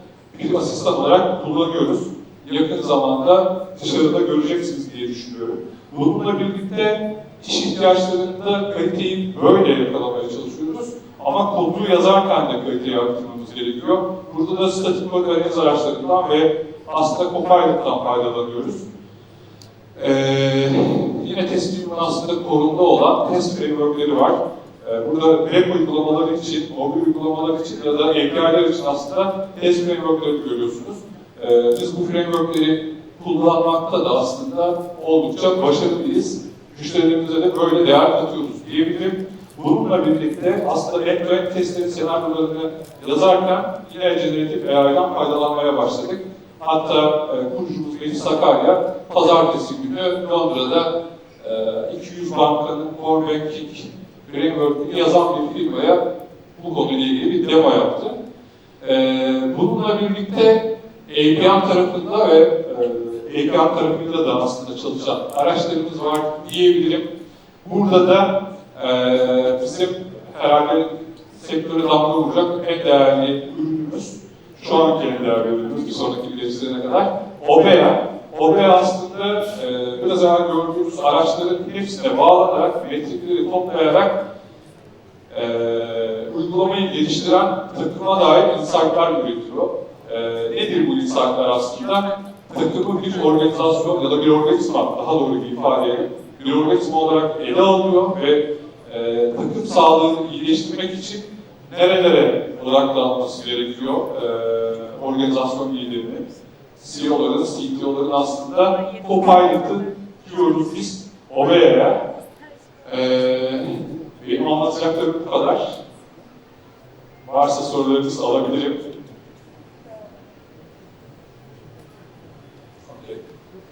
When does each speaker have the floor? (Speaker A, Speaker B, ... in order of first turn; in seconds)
Speaker A: 0.3-18.9, 20.0-56.0, 56.6-58.2, 58.8-67.1, 67.6-84.2, 85.3-106.3, 106.8-112.0, 112.8-115.8, 117.2-119.0, 122.9-123.2